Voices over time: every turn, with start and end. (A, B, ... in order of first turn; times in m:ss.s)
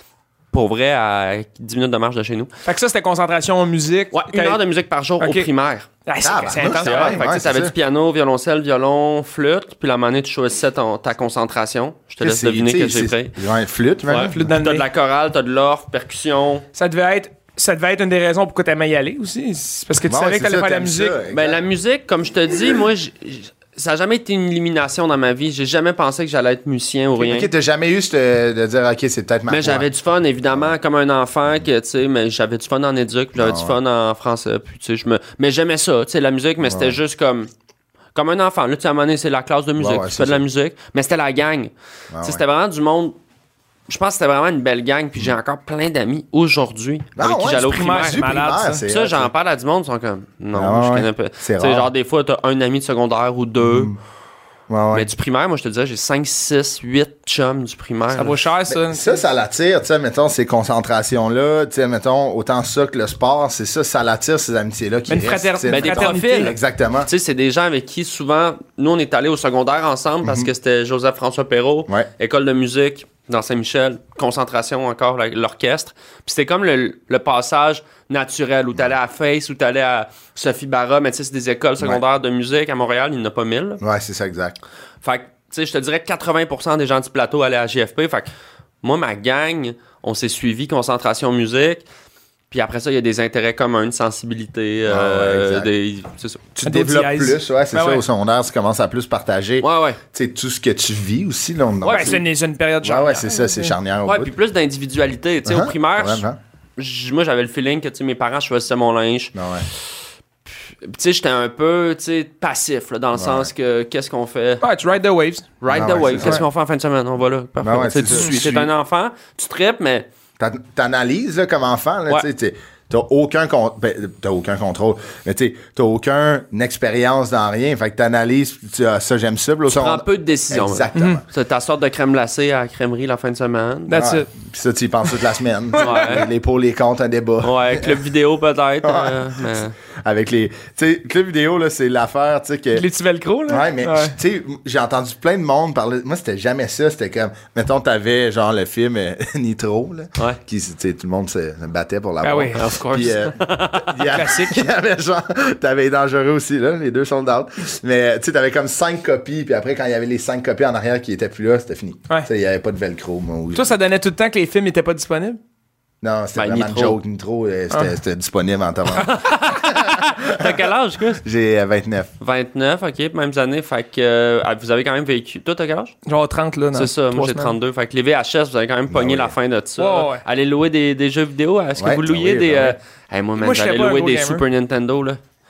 0:00.5-0:02.5 A
0:02.6-0:04.6 B
0:04.1-0:05.9 A
0:05.2-0:05.5 B
0:06.1-0:07.2 B
0:06.2-0:07.7 C
0:06.5-0:13.3 A
0:12.2-0:14.4 C
0:14.1-0:16.7 A
0:14.1-0:14.9 B
0:16.8-0:21.2 B
0:20.0-0:21.6 C
0:21.3-0:27.5 A
0:27.2-0:29.9 C
0:29.5-0:37.5 A
0:33.4-0:33.8 C
0:36.6-0:37.0 C
0:38.2-0:41.7 A
0:39.8-0:40.4 C
0:42.1-0:42.4 C
0:42.2-0:43.2 A
0:43.9-0:48.4 A
0:47.2-0:49.3 C
0:47.7-0:48.8 B
0:48.9-0:53.9 A
0:50.5-0:51.9 C
0:53.6-0:54.0 C
0:54.7-0:55.1 C
0:54.9-0:58.4 A
0:58.1-0:59.2 B
0:58.7-1:07.1 C
1:05.1-1:06.6 B
1:05.7-1:23.8 A
1:10.2-1:10.5 C
1:23.8-1:24.6 C
1:25.0-1:28.3 A
1:28.8-1:31.8 A
1:32.5-1:36.4 A
1:34.9-1:35.7 C
1:36.6-1:42.2 C
1:36.6-1:38.0 B
1:39.6-1:40.0 A
1:41.8-1:42.2 A
1:41.8-1:43.8 B
1:42.8-1:44.3 C
1:44.1-1:46.2 A
1:45.4-1:46.4 C
1:46.8-1:49.4 A
1:49.4-1:49.7 C
1:50.8-1:54.6 A
1:53.2-1:53.5 C
1:54.6-1:55.5 B
1:55.6-2:00.1 A
1:55.7-1:56.4 C
1:57.6-1:58.7 C
2:00.4-2:11.2 C
2:09.7-2:14.0 A
2:11.0-2:11.2 B
2:13.9-2:14.3 B
2:13.9-2:18.0 C
2:15.7-2:16.2 B
2:15.8-2:16.3 A
2:17.4-2:19.8 A
2:18.8-2:19.2 C
2:20.0-2:22.9 C
2:22.7-2:24.2 B
2:23.5-2:43.8 C
2:32.2-2:32.6 B
2:32.6-2:34.2 A
2:34.1-2:34.6 B
2:43.6-2:45.4 B
2:46.0-2:50.6 C
2:46.4-2:47.0 A
2:48.9-2:51.2 A
2:51.2-2:52.1 C
2:52.2-2:56.0 A
2:56.1-2:57.5 B
2:56.7-3:05.2 A
2:58.9-2:59.3 C
2:59.8-3:00.2 B
3:01.8-3:02.8 C
3:03.4-3:04.4 B